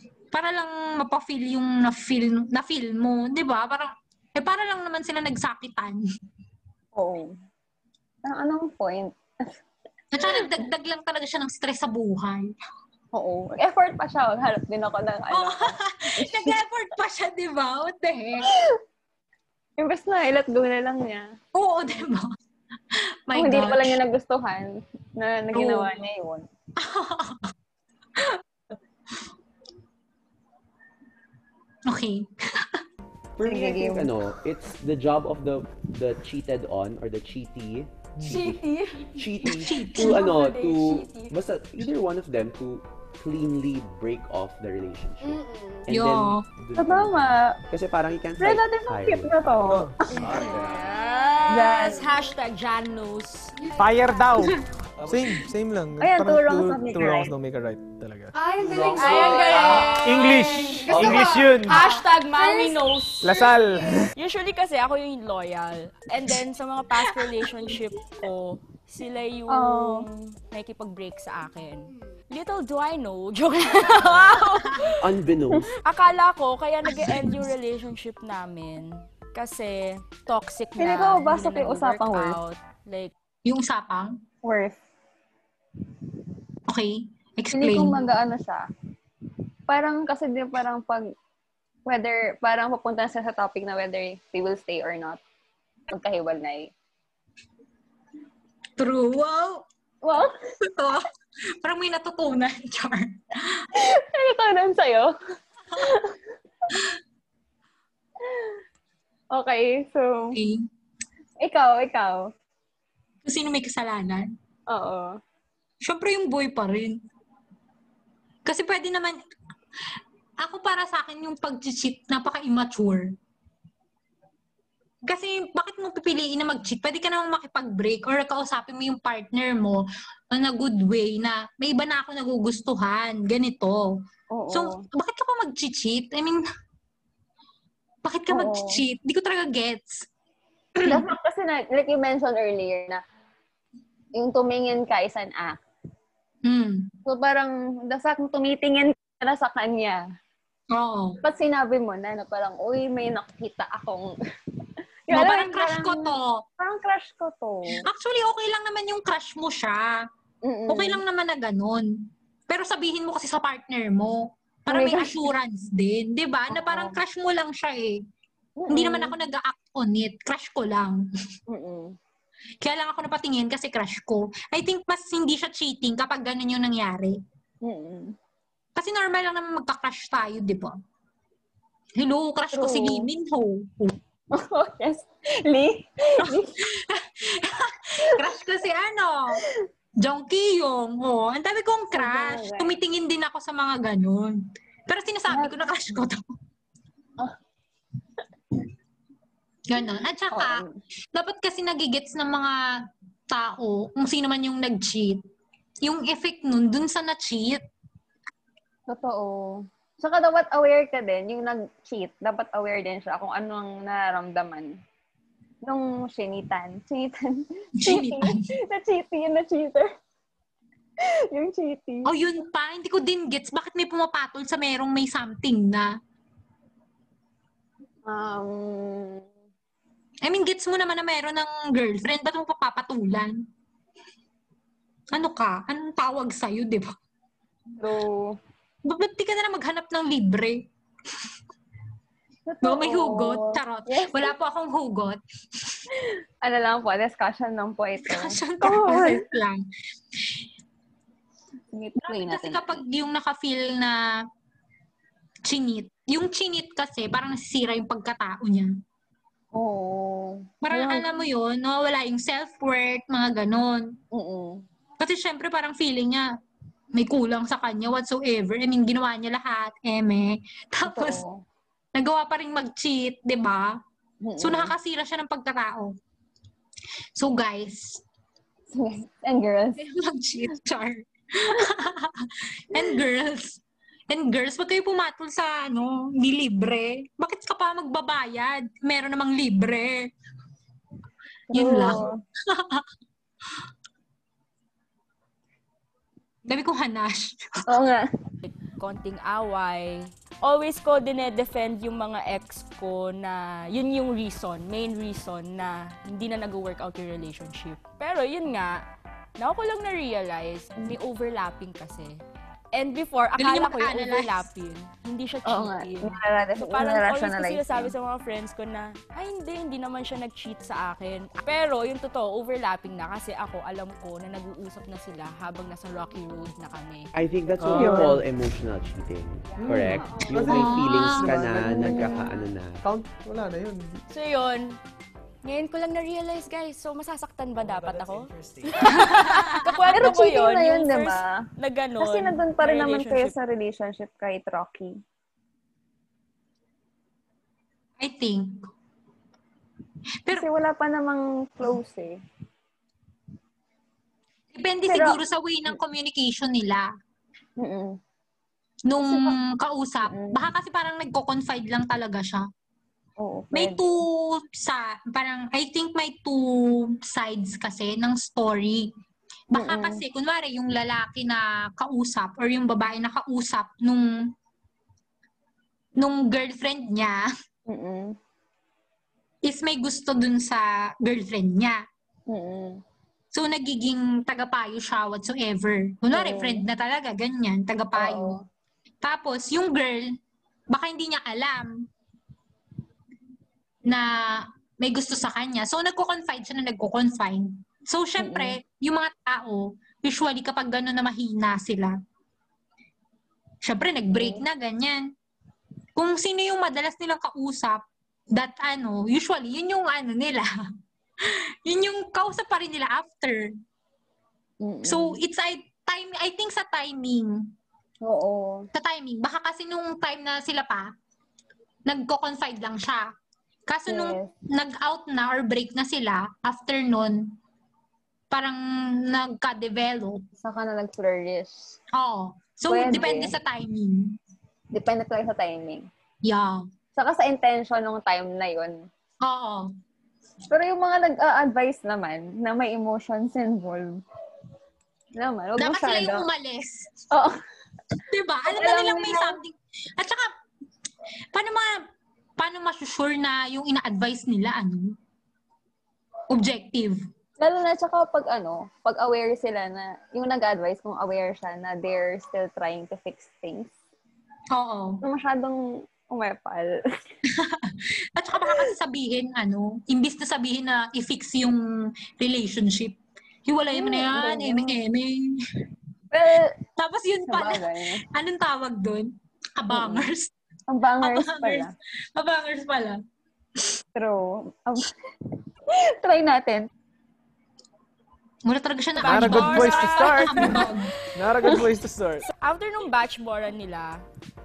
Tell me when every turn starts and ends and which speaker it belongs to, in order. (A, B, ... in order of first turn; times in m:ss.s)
0:00.3-0:06.0 A
0:06.9-0:07.4 B
0:08.2-0:09.6 B
0:10.1-0:12.5 A
0:10.2-0:10.5 B
0:13.1-0:16.6 B
0:15.3-0:18.5 A
0:19.8-0:21.4 B
0:21.5-0:22.3 A
0:22.9-0:24.0 A
0:23.3-0:26.5 B
0:25.5-0:25.9 A
0:26.8-0:27.5 A
0:31.8-0:32.8 A
0:33.4-0:49.4 C
0:33.4-0:34.1 B
0:38.2-0:41.3 D
0:39.4-0:40.3 A
0:45.2-0:45.9 E
0:45.9-0:46.4 A
0:46.8-0:47.6 B
0:48.4-0:50.3 B
0:49.7-0:50.2 F
0:50.0-0:51.0 C
0:50.2-0:53.7 D
0:51.5-0:52.1 B
0:53.6-0:54.4 E
0:53.8-0:58.3 F
0:55.0-0:55.4 C
0:56.0-0:57.3 B
0:58.3-1:02.8 E
0:58.6-1:00.2 C
0:58.9-1:03.6 D
0:59.9-1:01.8 F
1:00.9-1:01.6 C
1:03.2-1:04.1 F
1:03.8-1:04.1 E
1:04.1-1:15.1 D
1:09.5-1:10.1 B
1:15.0-1:15.7 C
1:15.8-1:23.1 D
1:16.8-1:17.4 A
1:20.8-1:22.4 B
1:23.4-1:24.2 A
1:24.4-1:24.8 B
1:26.7-1:28.0 A
1:27.5-1:28.6 B
1:29.7-1:31.1 B
1:31.8-1:35.2 B
1:35.9-1:36.7 B
1:38.8-1:39.6 A
1:40.0-1:40.4 B
1:40.7-1:41.1 A
1:41.6-1:43.7 A
1:43.7-1:45.1 B
1:45.7-1:46.2 B
1:48.2-1:48.5 B
1:49.3-1:50.4 B
1:50.3-1:50.7 A
1:51.4-1:52.3 B
1:53.2-1:54.3 A
1:54.7-1:55.2 B
1:55.8-1:57.0 A
1:58.4-1:59.2 A
2:00.4-2:03.1 A
2:05.0-2:14.0 A
2:14.3-2:14.8 B
2:14.5-2:16.4 A
2:18.0-2:20.1 A
2:18.3-2:18.8 B
2:20.8-2:21.0 A
2:20.8-2:23.0 B
2:24.1-2:25.6 B
2:26.4-2:26.9 A
2:27.0-2:30.0 B
2:30.7-2:31.2 A
2:31.2-2:34.1 B
2:35.1-2:37.8 B
2:35.1-2:36.4 A
2:37.7-2:40.0 A
2:40.4-2:41.0 B
2:40.7-2:48.0 A
2:44.7-2:45.3 B
2:46.5-2:47.0 B
2:48.6-2:49.1 B
2:48.7-2:51.1 A
2:51.5-2:52.0 B
2:52.6-2:57.2 A
2:57.6-2:58.2 B
2:58.8-3:00.8 A
3:02.0-3:04.0 A
3:02.5-3:03.1 B
3:04.3-3:06.7 B
3:06.2-3:09.4 A
3:10.0-3:16.2 A
3:11.9-3:12.8 B
3:15.3-3:15.6 B
3:19.7-3:20.6 A
3:20.3-3:20.8 B
3:21.1-3:25.2 A
3:25.8-3:27.6 A
3:28.9-3:34.8 B
3:35.6-3:39.9 B
3:37.8-3:38.5 A
3:41.3-3:42.1 B
3:42.0-3:45.9 A
3:48.0-3:49.3 B
3:50.2-3:53.4 A
3:55.1-3:56.9 A
3:57.8-3:58.4 B
3:58.8-4:00.6 A
4:02.5-4:04.3 B
4:02.6-4:05.8 A
4:06.4-4:09.2 B
4:08.0-4:09.6 A
4:11.7-4:12.8 B
4:12.0-4:14.2 A
4:15.4-4:18.8 A
4:19.5-4:21.0 B
4:20.6-4:24.0 A
4:24.1-4:24.6 B
4:25.0-4:26.3 A
4:26.9-4:31.2 A
4:30.8-4:31.4 B
4:31.9-4:33.8 A
4:34.2-4:34.7 B
4:34.4-4:35.9 A
4:37.2-4:38.0 A
4:38.7-4:39.8 B
4:39.8-4:50.1 A
4:51.5-4:52.2 B
4:51.5-4:52.8 A
4:56.5-4:57.6 A
4:57.7-4:58.1 B
4:58.4-5:08.8 D
5:09.4-5:12.2 D
5:12.7-5:27.1 D
5:13.4-5:14.5 A
5:15.4-5:17.9 B
5:27.1-5:32.8 C
5:27.6-5:28.2 F
5:29.6-5:34.0 F
5:30.4-5:31.4 A
5:31.8-5:32.2 B
5:34.1-5:34.7 D
5:35.4-5:43.3 D
5:38.3-5:38.7 C
5:38.9-5:39.8 A
5:39.9-5:41.4 B
5:42.0-5:45.0 B
5:48.0-5:48.7 A
5:50.3-5:52.2 B
5:54.5-5:56.9 A
5:54.8-5:55.2 B
5:57.6-5:58.0 B
5:58.9-6:02.5 A
5:59.0-5:59.4 B
6:00.1-6:00.4 B
6:03.2-6:03.8 B
6:03.5-6:08.9 A
6:09.5-6:14.3 A
6:09.5-6:10.0 B
6:16.0-6:17.3 A
6:17.7-6:18.2 B
6:19.4-6:21.8 A
6:22.3-6:22.8 B
6:23.3-6:28.3 A
6:26.1-6:26.6 B
6:28.0-6:28.4 B
6:29.0-6:30.2 A
6:30.7-6:31.8 A
6:33.8-6:42.0 A
6:38.2-6:38.6 B
6:43.6-6:45.1 A
6:44.1-6:44.4 B
6:46.0-6:50.5 A
6:51.2-6:53.5 A
6:54.6-6:55.2 B
6:54.8-6:57.5 A
6:58.0-6:58.7 B
6:58.7-7:00.9 A
7:01.8-7:03.1 A
7:03.7-7:07.4 A
7:03.9-7:04.3 B
7:08.3-7:10.2 A
7:10.4-7:11.8 B
7:11.9-7:14.2 A
7:12.7-7:13.3 B
7:14.7-7:15.9 B
7:16.2-7:16.6 A
7:17.0-7:18.9 B
7:19.2-7:19.7 A
7:20.5-7:24.0 B
7:25.2-7:26.2 B
7:25.6-7:27.0 A
7:27.1-7:27.4 B
7:28.1-7:30.3 A
7:28.5-7:29.4 B
7:31.3-7:31.8 A
7:32.4-7:35.0 A
7:36.3-7:37.0 A
7:37.4-7:43.7 B
7:44.5-7:45.0 A
7:45.0-7:46.8 B
7:47.3-7:51.6 A
7:48.4-7:48.7 B
7:52.2-7:55.4 A
7:53.7-7:54.8 B
7:56.1-7:56.6 B
7:56.8-8:00.3 A
7:57.3-7:58.0 B
7:59.7-8:00.1 B
8:00.7-8:01.7 B
8:01.0-8:03.0 A
8:03.9-8:04.9 B
8:05.7-8:06.7 B
8:08.4-8:10.9 A
8:09.0-8:10.6 D
8:09.0-8:12.3 F
8:12.3-8:14.0 D